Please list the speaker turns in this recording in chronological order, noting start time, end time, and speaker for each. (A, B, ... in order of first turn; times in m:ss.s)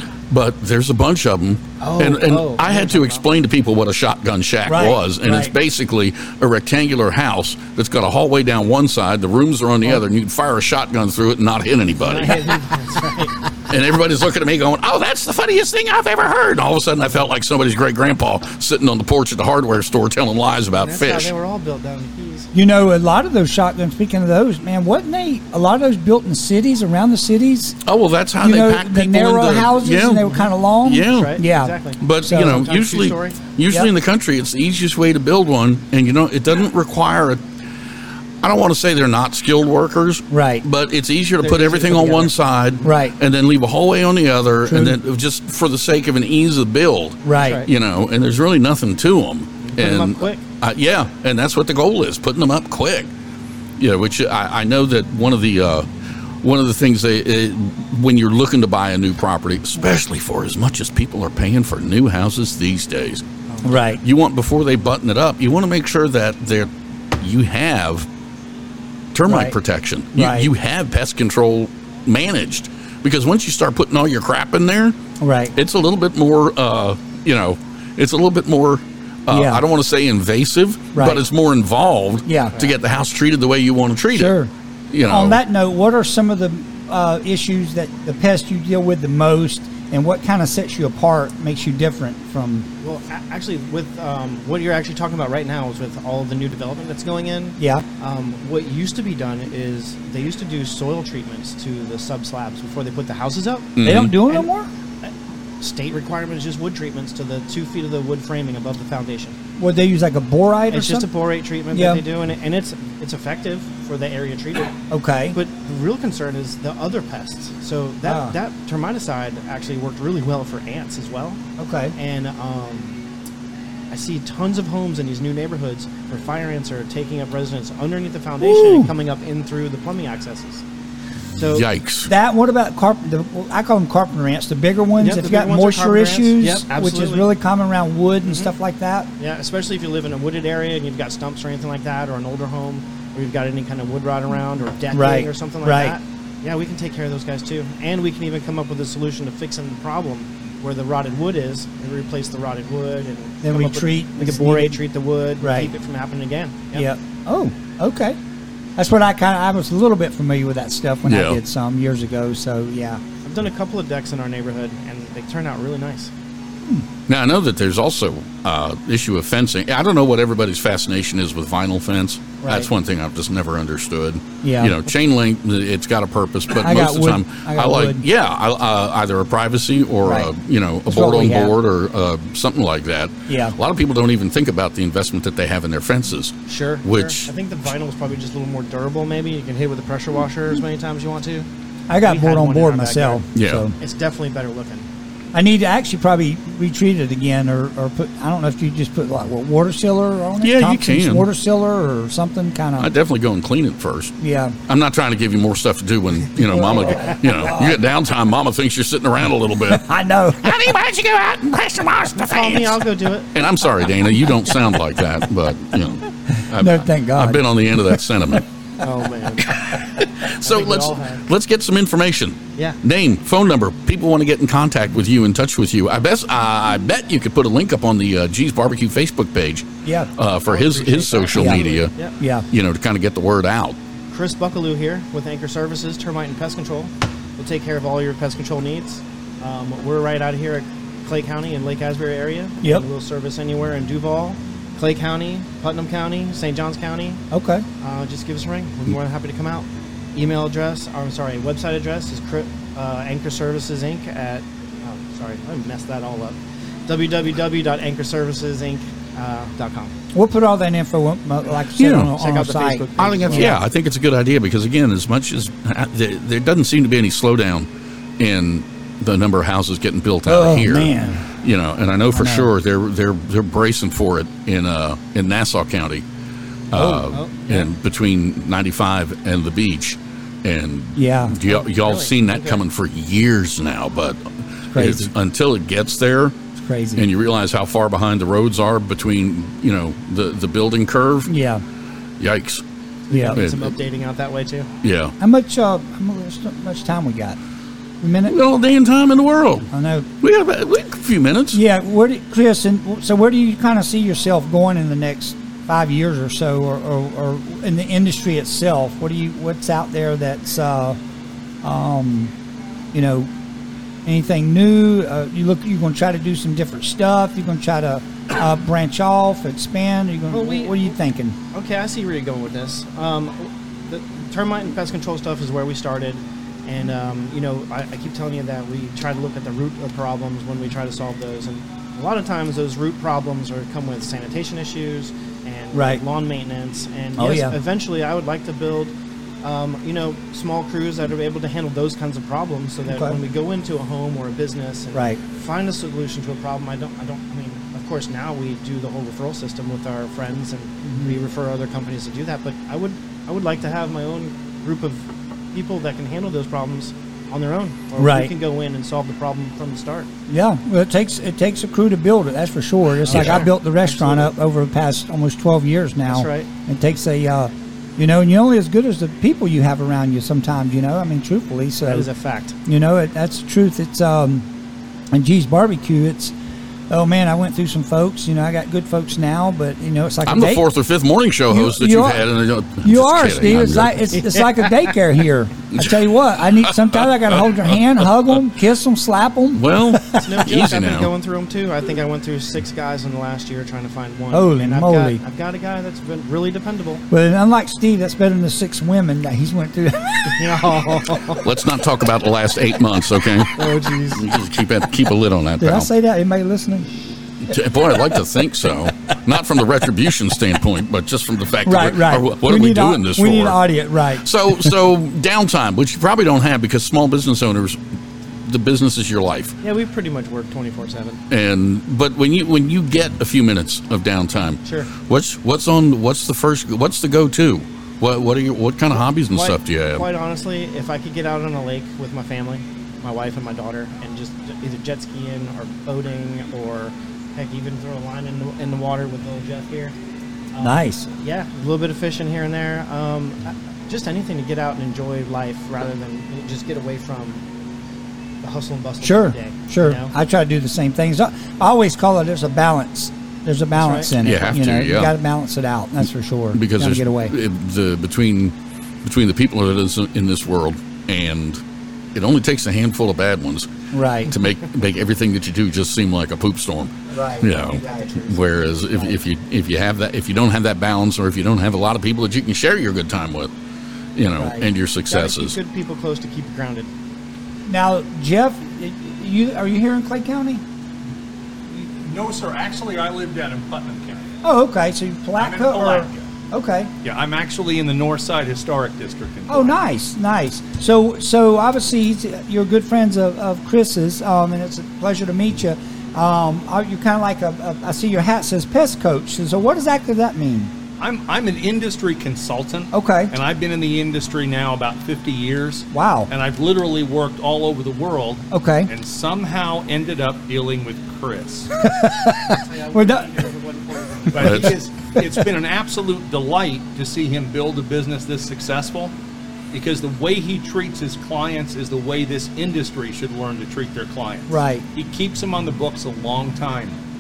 0:00.3-0:12.5 A
0:01.8-0:03.2 B
0:04.7-0:05.5 C
0:12.0-0:13.4 B
0:13.7-0:21.3 A
0:20.8-0:22.5 B
0:22.5-0:27.8 C
0:27.9-0:31.4 A
0:28.4-0:31.7 C
0:31.0-0:33.4 B
0:32.0-0:37.4 A
0:32.2-0:32.6 C
0:38.4-0:53.1 A
0:40.3-0:40.6 C
0:41.4-0:42.4 B
0:42.8-0:43.2 C
0:44.7-0:45.0 C
0:47.2-0:47.6 C
0:47.3-0:47.7 B
0:49.6-0:50.4 B
0:53.8-0:55.9 A
0:56.4-1:03.2 A
1:03.5-1:03.8 B
1:03.6-1:04.0 C
1:03.8-1:08.1 A
1:09.1-1:15.0 A
1:09.3-1:09.6 C
1:10.2-1:10.5 C
1:15.2-1:15.5 C
1:15.6-1:24.4 A
1:19.3-1:19.6 C
1:21.0-1:21.2 C
1:22.3-1:22.6 C
1:24.1-1:24.5 C
1:24.9-1:25.4 A
1:25.1-1:32.7 C
1:32.8-1:44.5 B
1:37.6-1:37.8 C
1:43.8-1:44.1 A
1:43.8-1:44.7 C
1:45.0-1:49.4 B
1:49.6-1:51.1 C
1:50.7-1:54.7 B
1:51.7-1:52.0 C
1:54.9-1:55.4 C
1:55.3-2:01.4 B
1:58.0-1:58.4 C
2:01.6-2:01.9 C
2:02.0-2:03.0 B
2:03.9-2:10.6 B
2:08.4-2:08.9 C
2:11.4-2:11.7 B
2:11.5-2:12.1 A
2:12.1-2:19.1 C
2:15.0-2:17.3 B
2:18.2-2:18.5 B
2:19.2-2:36.9 B
2:24.9-2:26.0 C
2:33.4-2:34.8 C
2:35.4-2:35.7 C
2:36.7-2:38.2 C
2:38.8-2:43.0 C
2:41.1-2:41.4 A
2:43.2-2:46.1 B
2:47.1-3:07.3 A
2:54.4-2:54.8 C
2:56.6-2:58.0 C
3:00.0-3:00.3 C
3:00.9-3:01.5 C
3:03.3-3:03.6 C
3:06.5-3:11.5 B
3:11.9-3:13.8 C
3:12.0-3:13.3 B
3:13.4-3:13.7 A
3:13.8-3:14.9 B
3:15.3-3:22.9 C
3:20.4-3:21.3 A
3:22.8-3:24.2 A
3:24.2-3:24.6 C
3:24.7-3:32.8 A
3:26.5-3:27.8 C
3:29.7-3:30.6 C
3:32.2-3:33.4 B
3:33.3-3:38.5 A
3:36.5-3:38.0 C
3:38.8-3:39.6 B
3:39.5-3:51.9 A
3:40.4-3:41.2 B
3:49.8-3:50.1 C
3:50.5-3:52.2 B
3:51.3-3:51.6 C
3:52.2-3:52.5 C
3:52.5-3:53.8 A
3:54.1-4:07.2 B
4:07.3-4:07.6 C
4:07.8-4:19.9 B
4:20.1-4:23.6 C
4:21.8-4:22.1 A
4:22.2-4:23.6 B
4:23.0-4:27.7 A
4:28.2-4:36.0 A
4:30.3-4:31.2 C
4:32.1-4:32.5 C
4:36.7-4:46.4 A
4:36.8-4:37.7 B
4:41.0-4:41.4 C
4:41.5-4:42.6 B
4:44.7-4:45.1 C
4:46.6-4:47.1 C
4:47.0-4:51.3 A
4:51.3-4:51.6 C
4:52.2-4:52.6 A
4:53.1-4:54.7 B
4:53.1-4:53.4 C
4:53.3-4:53.7 A
4:54.8-4:55.1 A
4:55.2-4:57.4 C
4:58.0-4:58.4 C
4:58.3-4:59.7 A
4:59.7-5:00.1 C
5:00.2-5:01.6 A
5:01.5-5:11.0 C
5:11.6-5:12.3 C
5:12.9-5:13.3 C
5:14.0-5:21.4 C
5:20.3-5:20.9 B
5:21.5-6:00.1 B
5:35.7-5:36.0 C
5:37.2-5:37.6 C
5:42.9-5:43.2 C
5:44.9-5:45.2 C
5:50.9-5:51.1 C
5:58.0-5:58.3 C
6:00.3-6:12.1 C
6:03.1-6:04.3 B
6:03.1-6:03.4 A
6:06.1-6:06.5 B
6:11.9-6:12.6 B
6:12.7-6:14.5 C
6:15.1-6:16.3 C
6:16.9-6:20.6 C
6:20.3-6:24.1 A
6:21.5-6:22.2 C
6:22.8-6:30.3 C
6:24.1-6:24.8 B
6:26.7-6:28.4 A
6:29.6-6:31.1 A
6:30.1-6:37.0 B
6:34.3-6:35.2 C
6:37.1-6:40.9 C
6:40.2-6:41.5 B
6:41.4-6:45.9 A
6:43.5-6:44.2 B
6:45.6-6:46.9 C
6:47.4-6:53.6 A
6:51.6-6:54.7 C
6:54.2-6:57.8 A
6:58.4-6:59.6 A
6:59.6-7:01.2 B
7:01.3-7:10.0 A
7:04.6-7:04.9 B
7:09.3-7:20.0 B
7:20.5-7:27.5 B
7:20.6-7:21.1 C
7:28.4-7:30.1 B
7:29.0-7:37.4 C
7:33.8-7:34.1 B
7:34.2-7:35.1 A
7:36.6-7:38.5 A
7:39.0-7:41.6 A
7:42.2-7:43.7 A
7:43.9-7:44.3 C
7:44.3-7:53.5 A
7:47.1-7:48.4 C
7:54.2-7:55.6 A
7:54.4-7:54.6 C
7:55.1-7:56.9 B
7:57.7-8:00.6 C
8:01.7-8:04.2 D
8:04.4-8:06.9 C
8:05.4-8:06.2 D
8:07.0-8:09.8 D
8:09.5-8:20.7 C
8:21.0-8:31.7 D
8:22.9-8:23.3 C
8:25.9-8:26.3 C
8:28.5-8:28.9 C
8:31.8-8:33.3 C
8:32.5-8:34.7 B
8:34.3-8:39.1 D
8:34.4-8:34.7 A
8:39.7-8:47.0 D
8:44.5-8:44.8 C